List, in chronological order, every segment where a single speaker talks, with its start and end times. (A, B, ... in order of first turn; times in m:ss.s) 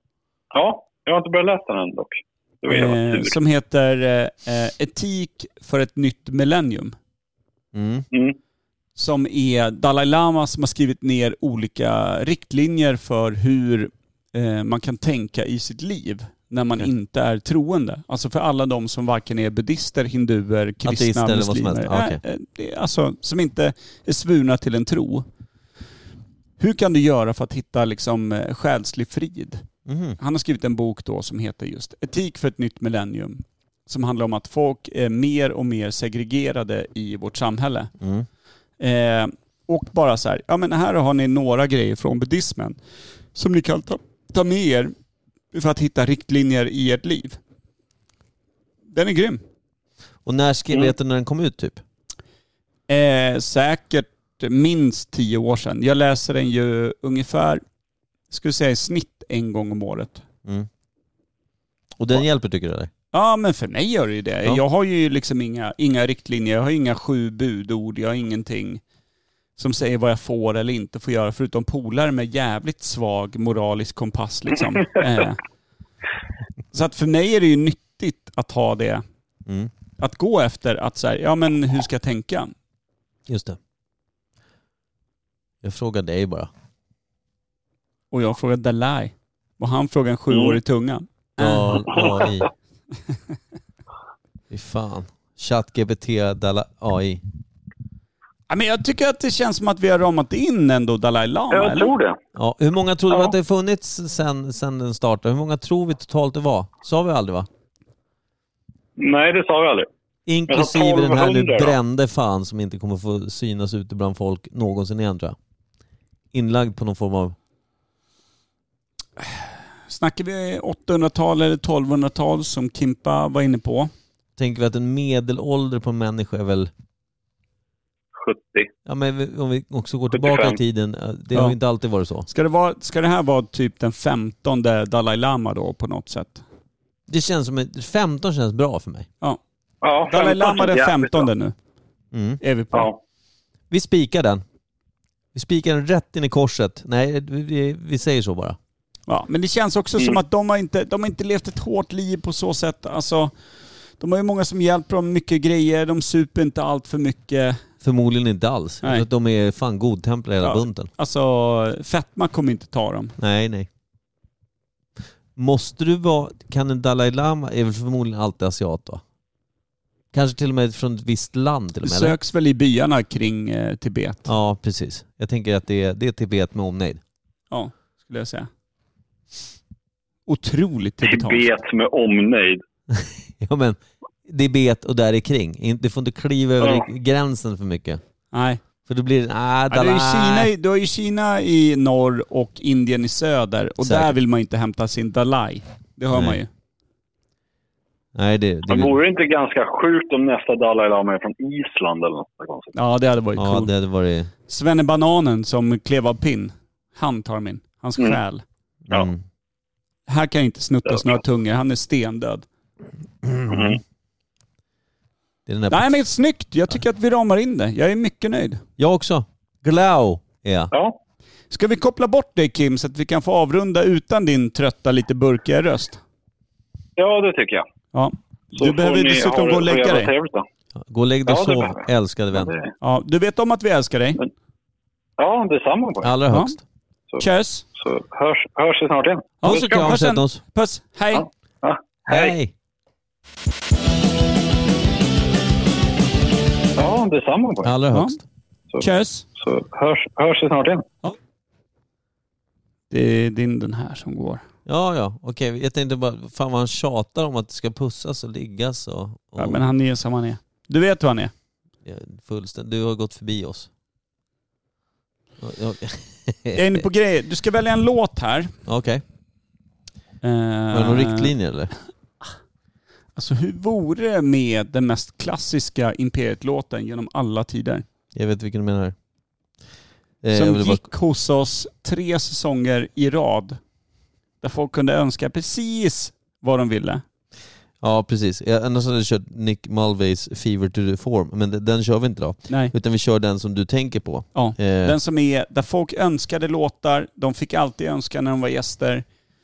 0:00.5-0:03.3 A
0:02.7-0:06.9 B
0:07.7-0:08.0 C
0:09.0-0:25.2 B
0:20.8-0:22.2 C
0:26.6-0:29.6 B
0:29.8-0:30.2 C
0:30.2-0:37.9 B
0:38.0-0:38.3 C
0:38.8-0:42.8 B
0:43.3-0:44.9 B
0:45.5-0:47.4 B
0:48.9-0:49.4 B
0:50.2-0:51.8 C
0:52.9-0:57.6 B
0:58.3-1:00.2 B
1:02.0-1:02.9 C
1:03.1-1:08.8 B
1:09.6-1:15.4 B
1:16.7-1:19.0 B
1:20.0-1:22.5 B
1:23.3-1:23.6 C
1:25.6-1:26.5 C
1:28.1-1:32.1 B
1:30.3-1:30.6 A
1:31.4-1:32.5 C
1:31.9-1:32.1 A
1:34.5-1:37.2 C
1:38.5-1:41.9 B
1:41.5-1:42.2 A
1:42.3-1:47.5 C
1:49.0-1:49.9 A
1:50.3-1:55.4 C
1:50.5-1:51.7 A
1:56.3-1:57.3 C
1:59.9-2:03.9 B
2:04.4-2:06.7 C
2:08.2-2:08.7 A
2:08.8-2:12.3 C
2:10.1-2:10.6 A
2:12.3-2:16.4 B
2:17.1-2:19.1 C
2:19.8-2:21.3 A
2:20.1-2:21.5 B
2:22.1-2:22.4 C
2:22.4-2:22.9 B
2:23.7-2:24.4 C
2:25.3-2:28.6 C
2:29.1-2:33.3 B
2:34.0-2:37.6 B
2:37.8-2:40.9 C
2:40.4-2:43.1 B
2:43.2-2:43.7 C
2:45.4-2:49.0 C
2:50.1-2:52.2 C
2:51.8-2:54.3 B
2:54.3-2:57.0 C
2:57.5-2:58.5 B
3:00.3-3:01.5 B
3:01.0-3:02.6 A
3:02.9-3:08.0 C
3:06.6-3:06.9 A
3:08.3-3:08.6 B
3:08.8-3:10.5 C
3:09.7-3:16.5 B
3:13.8-3:14.1 C
3:16.1-3:16.4 C
3:18.1-3:19.0 C
3:18.7-3:22.7 A
3:22.7-3:23.7 B
3:23.4-3:24.3 C
3:24.5-3:28.4 B
3:28.9-3:29.2 C
3:30.1-3:32.4 B
3:30.9-3:31.2 A
3:33.2-3:33.7 C
3:33.5-3:33.8 A
3:35.5-3:36.0 C
3:35.7-3:38.6 B
3:38.8-3:40.7 C
3:40.7-3:41.0 A
3:41.5-3:46.0 B
3:47.0-3:47.6 A
3:47.9-3:50.1 B
3:48.5-3:50.4 A
3:50.8-3:52.5 C
3:51.3-3:52.7 A
3:52.8-3:54.2 B
3:55.2-3:56.1 A
3:56.0-3:56.6 C
3:57.2-3:57.6 B
3:57.8-3:59.6 A
3:59.4-4:01.2 B
3:59.4-4:00.4 C
4:01.1-4:02.3 A
4:02.1-4:02.5 C
4:06.8-4:07.7 A
4:07.6-4:08.2 C
4:08.8-4:09.2 B
4:09.4-4:10.8 A
4:12.9-4:14.4 B
4:14.6-4:19.6 C
4:19.4-4:21.3 B
4:21.8-4:23.7 C
4:25.4-4:26.8 C
4:26.5-4:28.5 B
4:28.7-4:29.0 C
4:30.2-4:31.3 B
4:30.7-4:31.7 C
4:33.2-4:37.8 B
4:38.1-4:38.9 C
4:40.2-4:40.8 C
4:40.3-4:43.6 B
4:44.4-4:47.0 B
4:47.8-4:55.0 C
4:54.3-4:59.0 B